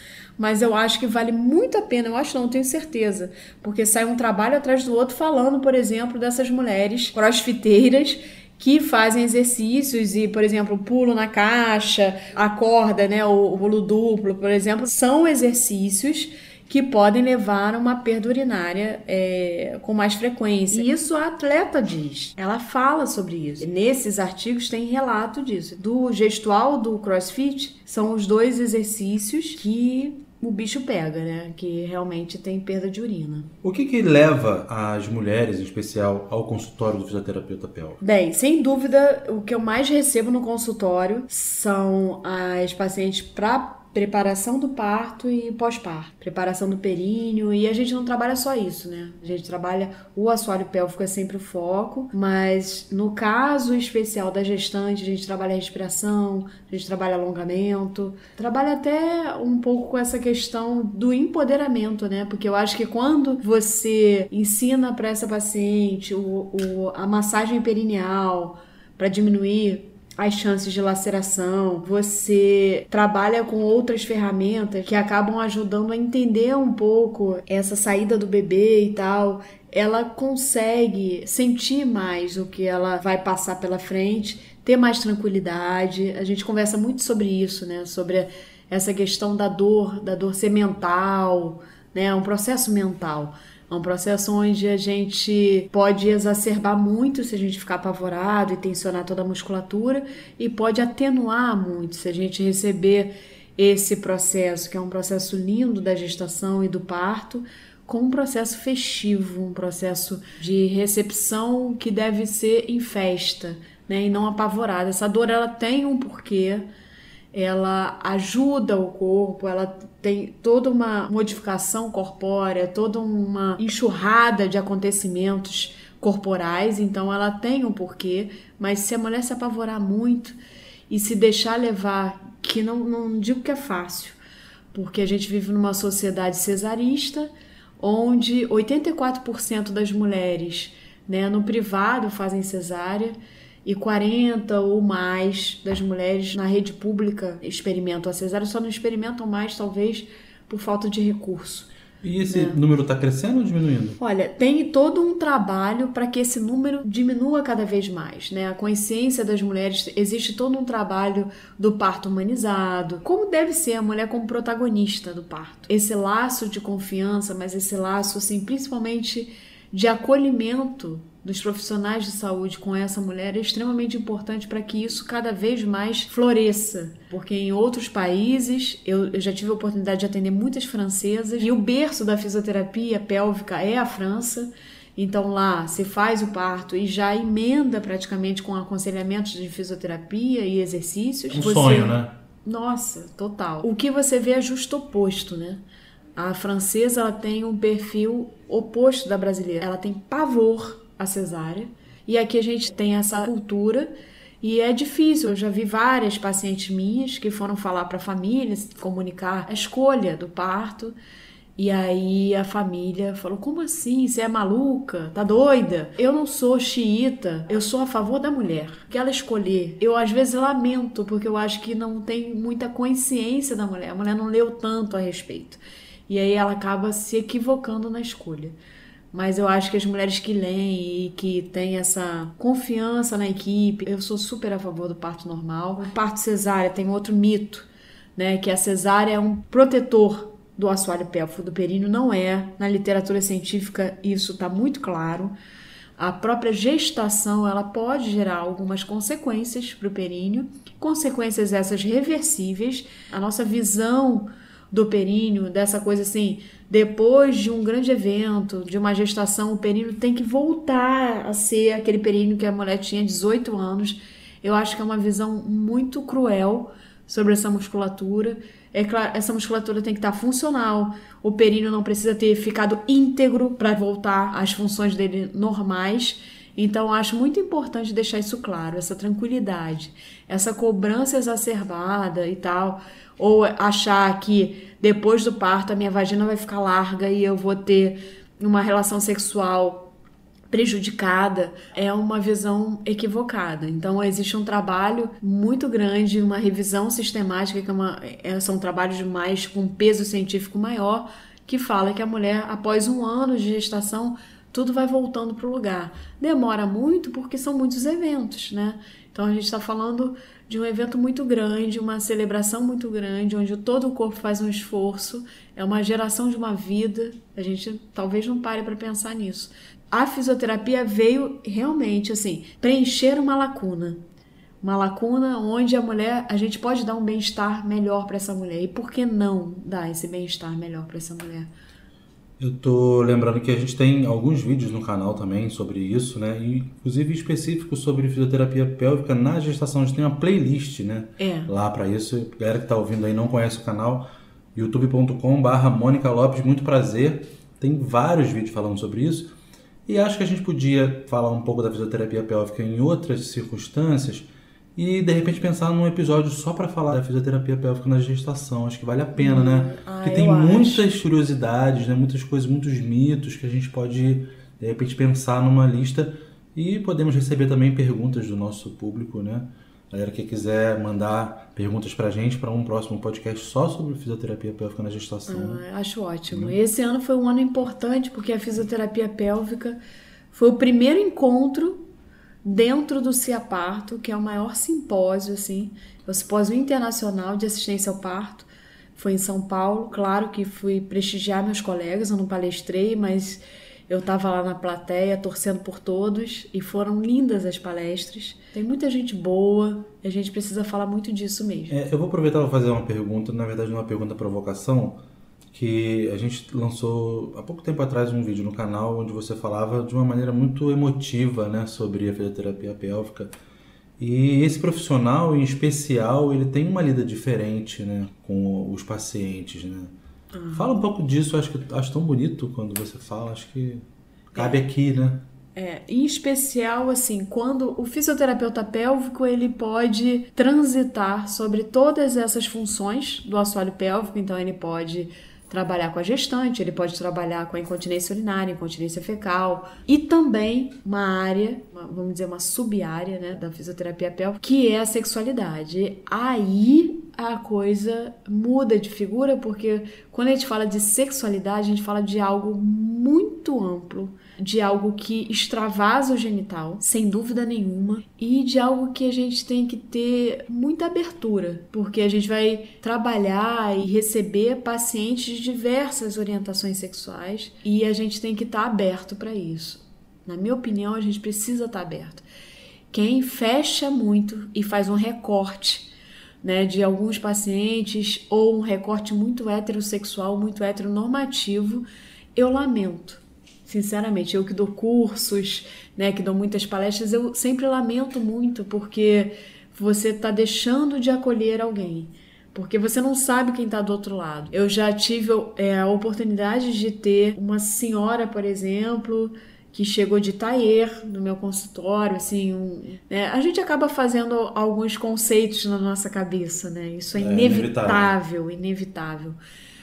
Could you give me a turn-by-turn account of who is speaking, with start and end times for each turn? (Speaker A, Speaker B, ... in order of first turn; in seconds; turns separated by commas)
Speaker A: 0.4-33.5, Speaker B: 33.6-38.0, Speaker A: 38.0-116.7, Speaker A: 117.3-130.4, Speaker A: 130.9-134.2, Speaker A: 134.7-151.7, Speaker B: 152.0-154.0, Speaker A: 152.3-152.6, Speaker A: 154.0-195.6, Speaker B: 191.3-192.2, Speaker A: 196.2-211.0, Speaker A: 211.6-228.6, Speaker A: 229.1-245.3, Speaker A: 246.0-289.9, Speaker A: 290.5-324.0, Speaker A: 324.6-331.5, Speaker B: 332.4-349.4, Speaker A: 341.2-341.5, Speaker B: 349.9-375.6, Speaker A: 359.2-360.9, Speaker A: 375.3-379.8, Speaker B: 376.3-376.6, Speaker A: 380.3-381.8, Speaker A: 382.4-401.8, Speaker B: 401.7-413.3, Speaker B: 414.0-419.9, Speaker A: 420.3-420.7, Speaker B: 420.5-425.2, Speaker A: 424.4-424.6, Speaker A: 425.6-472.2, Speaker A: 472.9-475.9, Speaker A: 476.4-509.4, Speaker B: 507.2-508.1